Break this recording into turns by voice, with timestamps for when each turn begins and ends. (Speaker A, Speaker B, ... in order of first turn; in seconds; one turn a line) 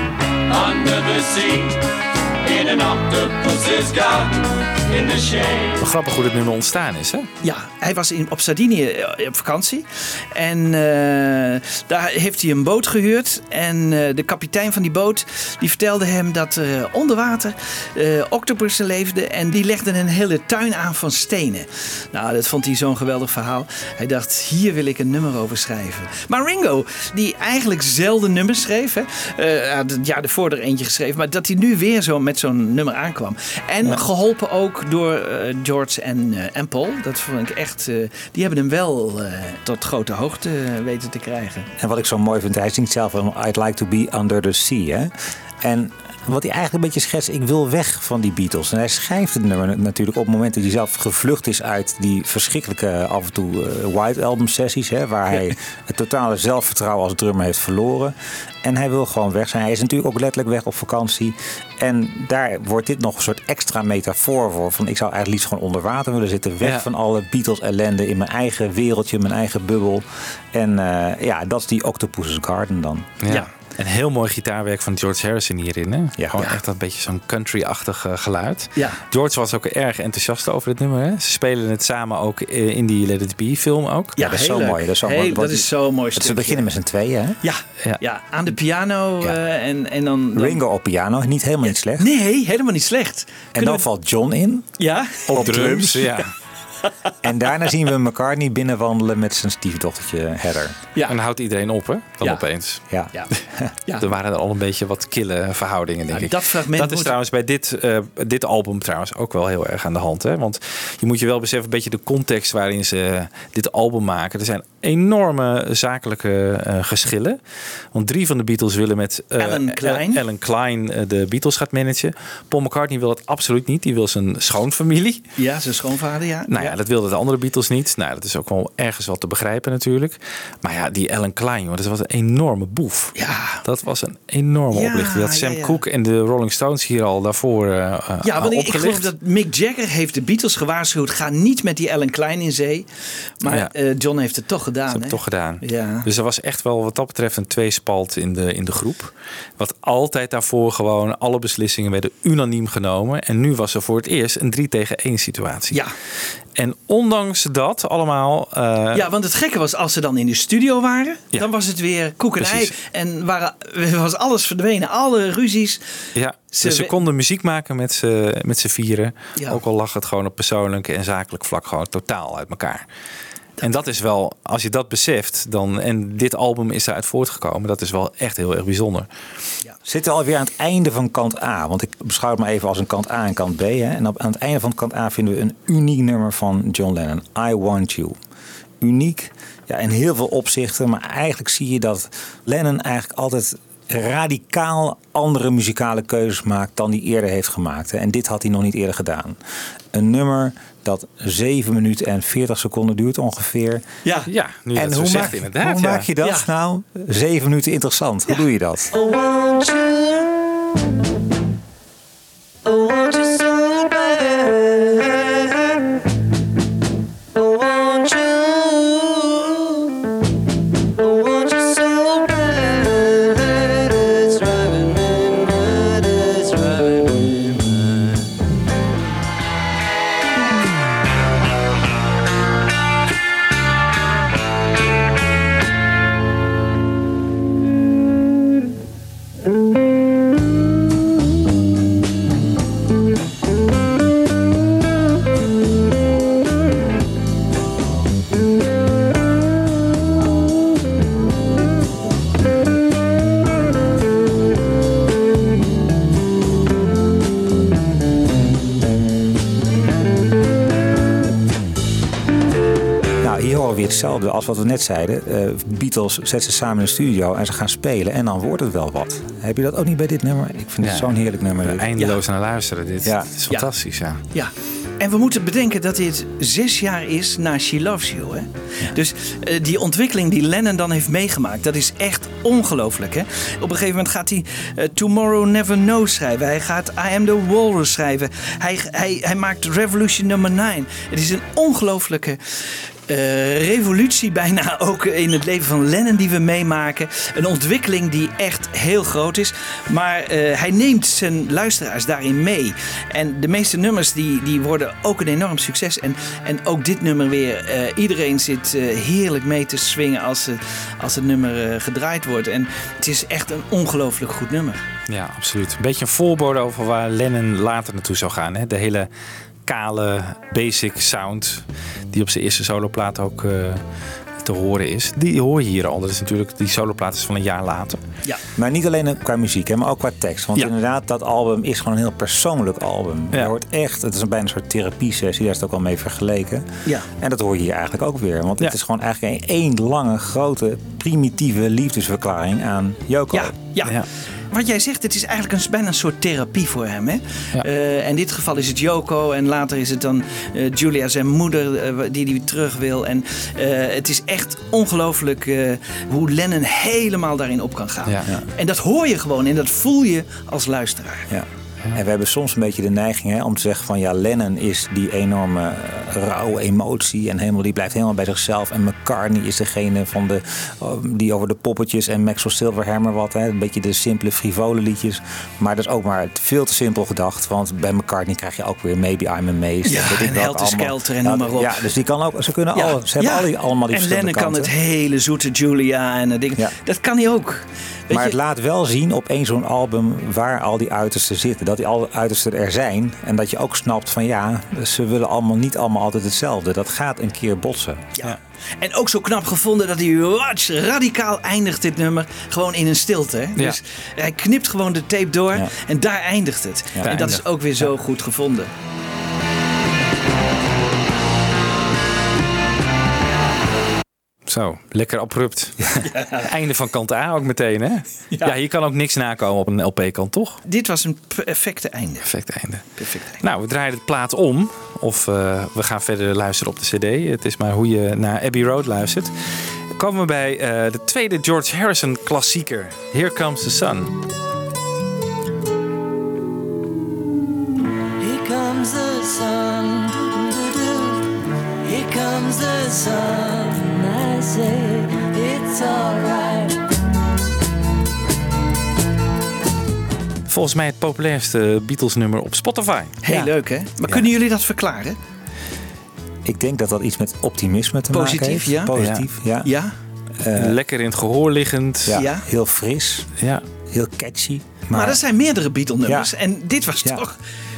Speaker A: 0.5-1.8
Speaker A: 2.4-5.8
Speaker B: 5.8-7.3
Speaker C: 7.4-41.7
Speaker D: 41.8-73.1
Speaker B: 73.2-84.2
Speaker D: 76.2-76.6
Speaker C: 84.2-86.7
Speaker D: 84.2-87.4
Speaker C: 87.4-90.6
Speaker D: 90.3-92.1
Speaker C: 92.0-93.8
Speaker D: 93.5-94.8
Speaker C: 94.8-96.2
Speaker D: 95.3-96.1
Speaker B: 95.3-96.3
Speaker C: 96.8-97.1
Speaker D: 97.2-100.8
Speaker B: 101.1-102.8
Speaker D: 102.9-103.7
Speaker B: 104.0-117.4
Speaker C: 106.1-107.1
Speaker B: 117.9-125.2
Speaker C: 119.4-120.2
Speaker C: 125.4-126.7
Speaker B: 126.5-139.1
Speaker C: 133.2-133.6
Speaker C: 134.7-135.8
Speaker C: 138.2-142.8
Speaker C: 143.4-146.1
Speaker B: 144.9-155.8
Speaker B: 156.6-159.1
Speaker C: 158.9-165.8
Speaker B: 162.4-162.7
Speaker B: 166.1-172.8
Speaker C: 166.5-167.0
Speaker B: 173.6-179.1
Speaker D: 179.8-188.2
Speaker D: 188.8-199.4
Speaker D: 199.9-203.8
Speaker C: 204.0-204.3
Speaker B: 204.3-206.1
Speaker D: 204.7-208.9
Speaker E: 208.9-210.3
Speaker E: 212.6-215.8
Speaker E: 217.3-220.0
Speaker E: 221.0-228.3
Speaker D: 263.2-271.9
Speaker B: 270.8-274.2
Speaker D: 273.0-273.3
Speaker C: 274.3-314.8
Speaker B: 315.1-319.1
Speaker B: 319.6-323.8
Speaker B: 324.4-328.0
Speaker D: 328.6-343.5
Speaker C: 343.3-361.3
Speaker B: 358.1-358.3
Speaker D: 361.3-384.7
Speaker C: 379.8-381.9
Speaker C: 382.7-388.4
Speaker D: 388.1-398.1
Speaker C: 398.2-408.7
Speaker D: 406.9-407.2
Speaker B: 407.0-407.4
Speaker B: 414.5-420.6
Speaker C: 416.0-416.4
Speaker C: 420.6-422.3
Speaker B: 422.2-434.1
Speaker C: 423.0-423.4
Speaker E: 438.2-446.8
Speaker B: 450.5-453.2
Speaker C: 453.2-455.2
Speaker D: 456.4-459.7
Speaker C: 458.1-458.9
Speaker B: 458.9-459.2
Speaker C: 459.6-459.9
Speaker D: 460.4-460.8
Speaker B: 460.5-462.2
Speaker D: 462.1-463.3
Speaker C: 462.1-462.4
Speaker B: 463.4-463.6
Speaker D: 463.9-465.2
Speaker C: 464.9-467.4